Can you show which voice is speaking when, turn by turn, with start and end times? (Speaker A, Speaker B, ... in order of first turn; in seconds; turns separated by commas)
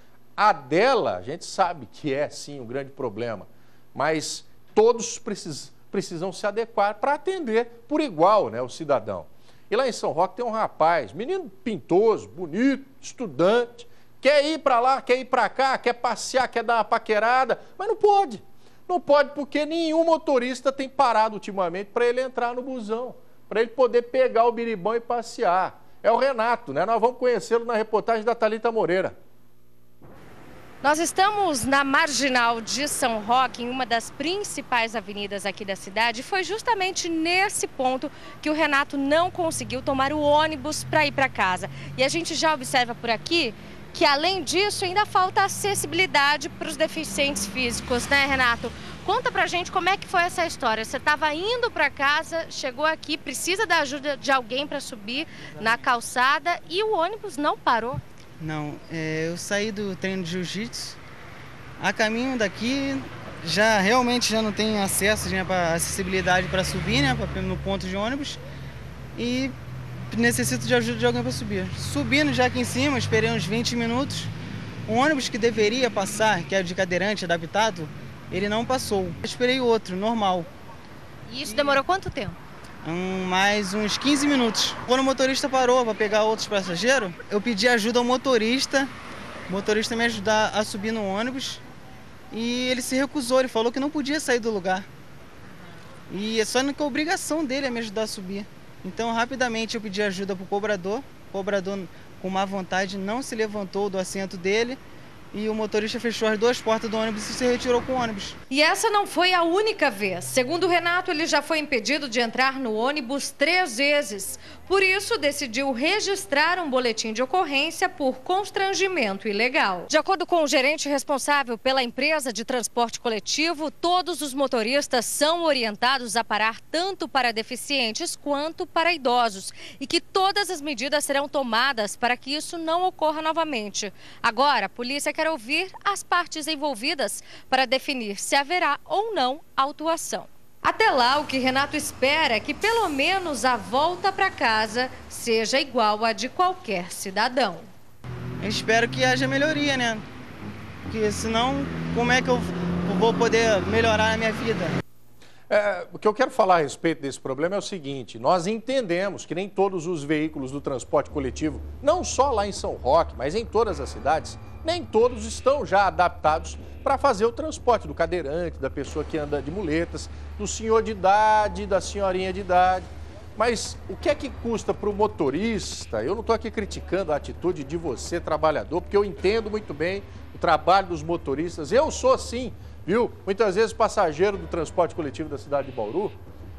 Speaker A: 0.4-29.1, Speaker B: 30.8-58.0, Speaker C: 58.4-61.0, Speaker C: 61.8-68.4, Speaker C: 69.2-69.5, Speaker C: 70.1-74.3, Speaker C: 74.9-80.5, Speaker B: 81.3-82.4, Speaker C: 81.5-81.8, Speaker C: 82.8-88.9, Speaker C: 89.5-91.6, Speaker C: 92.3-94.9, Speaker C: 96.1-104.8, Speaker C: 105.3-108.4, Speaker B: 108.5-147.7, Speaker C: 148.4-150.1, Speaker C: 150.9-154.8, Speaker A: 155.5-186.2